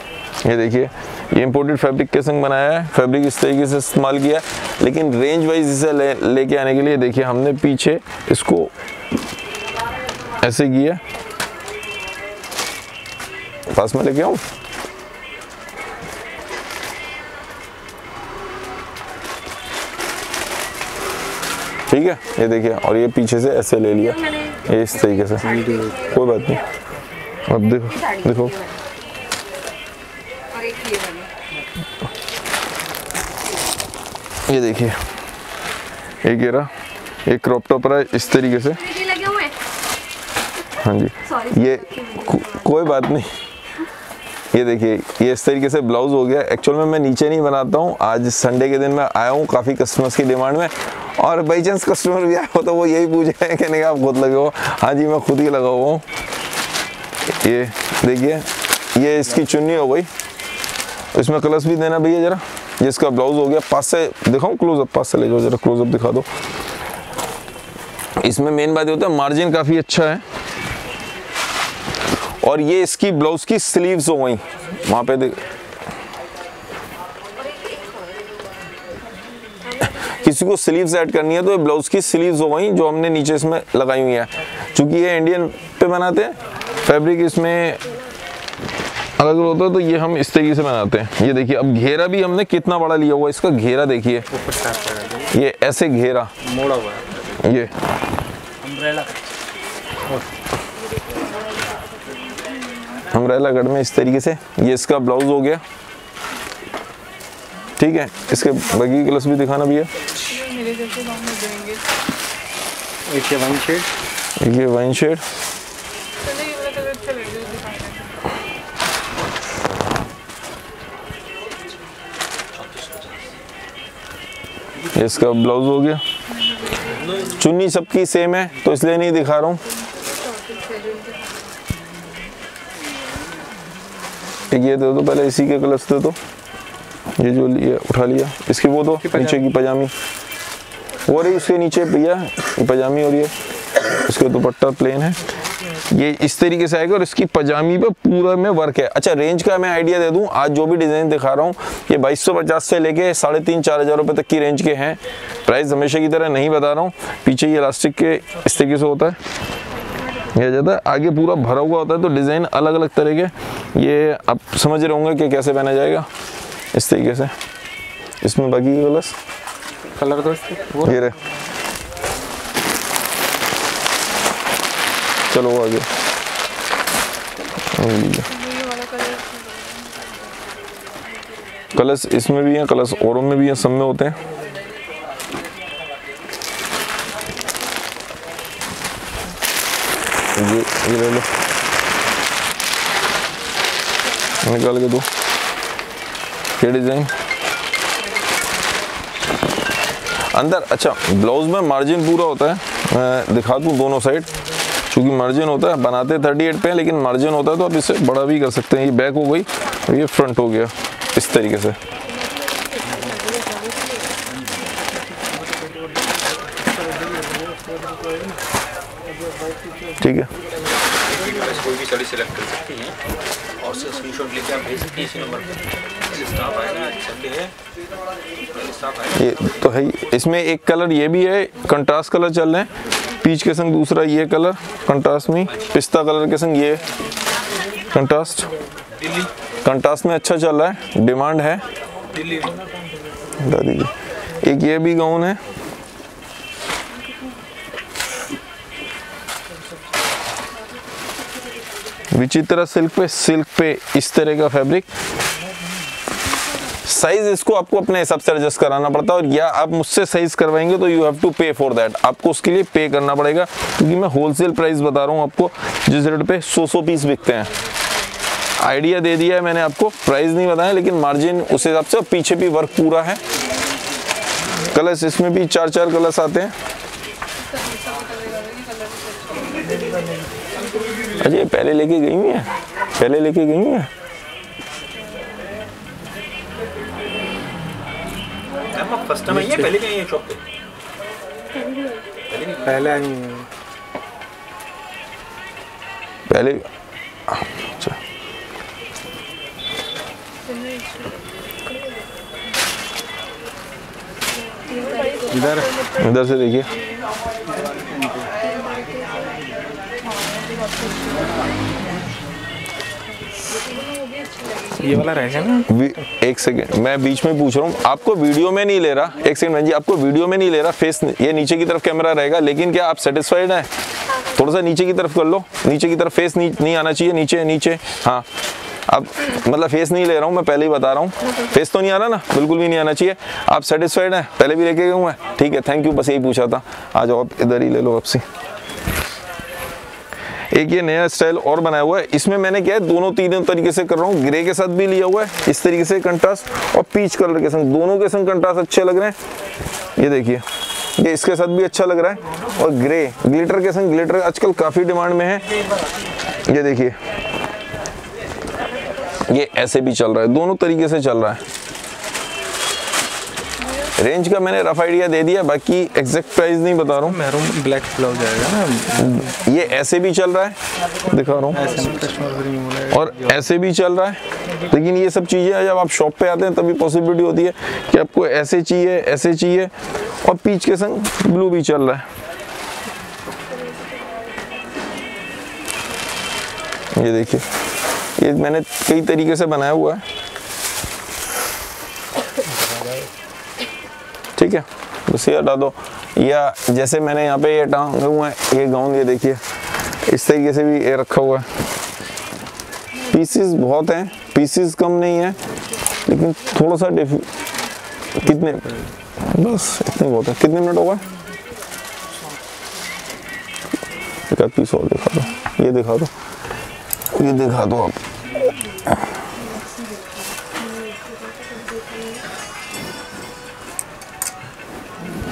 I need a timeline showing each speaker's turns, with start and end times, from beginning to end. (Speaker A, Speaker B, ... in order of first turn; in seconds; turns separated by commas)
Speaker A: 0.4-8.7, Speaker A: 10.4-11.0, Speaker A: 13.7-14.4, Speaker A: 21.9-26.6, Speaker B: 25.4-26.0, Speaker A: 27.5-28.6, Speaker C: 30.5-31.3, Speaker A: 34.5-35.0, Speaker A: 36.2-36.7, Speaker A: 37.2-39.2, Speaker C: 39.2-39.5, Speaker A: 40.8-43.3, Speaker A: 44.5-56.0, Speaker A: 57.2-60.1, Speaker A: 61.1-66.3, Speaker A: 68.2-70.2, Speaker A: 72.4-75.4, Speaker A: 79.8-87.9, Speaker A: 89.2-94.3, Speaker B: 94.3-95.3, Speaker A: 95.3-96.3, Speaker B: 96.4-97.2, Speaker A: 97.4-97.7, Speaker A: 103.1-105.6, Speaker A: 107.8-109.9, Speaker D: 110.3-111.8, Speaker B: 113.1-113.9, Speaker A: 114.4-115.2, Speaker D: 116.2-118.2, Speaker A: 124.9-126.0, Speaker A: 127.3-129.6, Speaker D: 130.5-131.1, Speaker A: 134.5-136.2, Speaker A: 137.2-139.9, Speaker B: 139.1-139.4, Speaker A: 141.1-143.3, Speaker A: 143.8-145.2, Speaker A: 145.9-159.2, Speaker A: 160.3-166.1, Speaker A: 166.7-167.3, Speaker A: 168.2-169.2, Speaker B: 169.9-171.0, Speaker A: 170.8-171.2, Speaker A: 175.3-175.9, Speaker A: 177.7-178.3, Speaker D: 178.4-180.1, Speaker A: 181.7-184.2, Speaker A: 190.3-191.3, Speaker A: 194.4-195.1, Speaker A: 196.6-197.1, Speaker A: 200.3-204.3, Speaker A: 204.9-211.8, Speaker A: 220.0-220.3, Speaker C: 221.1-223.0, Speaker C: 223.6-225.5, Speaker C: 226.0-227.5, Speaker C: 228.5-229.1, Speaker A: 229.1-232.7, Speaker A: 233.2-236.8, Speaker A: 237.9-238.5, Speaker A: 239.6-241.6, Speaker A: 243.4-245.4, Speaker A: 252.1-254.9, Speaker A: 256.8-267.5, Speaker A: 268.6-273.2, Speaker A: 274.7-276.5, Speaker D: 277.5-279.6, Speaker A: 281.2-283.9, Speaker C: 288.7-290.4, Speaker B: 289.2-289.7, Speaker C: 292.3-292.7, Speaker B: 292.6-293.4, Speaker A: 296.3-296.7, Speaker A: 297.3-298.0, Speaker D: 300.6-301.1, Speaker D: 305.0-305.3, Speaker B: 305.3-305.8, Speaker A: 305.9-306.7, Speaker B: 307.7-308.0, Speaker D: 310.2-311.3, Speaker D: 313.6-314.8, Speaker B: 314.7-315.7, Speaker A: 315.6-328.3, Speaker A: 328.9-338.2, Speaker A: 340.5-349.1, Speaker A: 350.0-350.4, Speaker A: 351.0-355.4, Speaker A: 356.4-356.9, Speaker A: 359.3-361.4, Speaker A: 364.0-367.2, Speaker B: 367.0-369.2, Speaker A: 368.9-371.6, Speaker B: 371.5-373.3, Speaker A: 372.9-382.1, Speaker A: 386.9-387.4, Speaker A: 388.2-390.0, Speaker A: 394.4-399.4, Speaker A: 400.0-401.4, Speaker A: 403.1-405.4, Speaker A: 406.0-407.3, Speaker A: 408.2-408.7, Speaker A: 409.2-411.1, Speaker A: 414.3-416.1, Speaker A: 417.1-418.0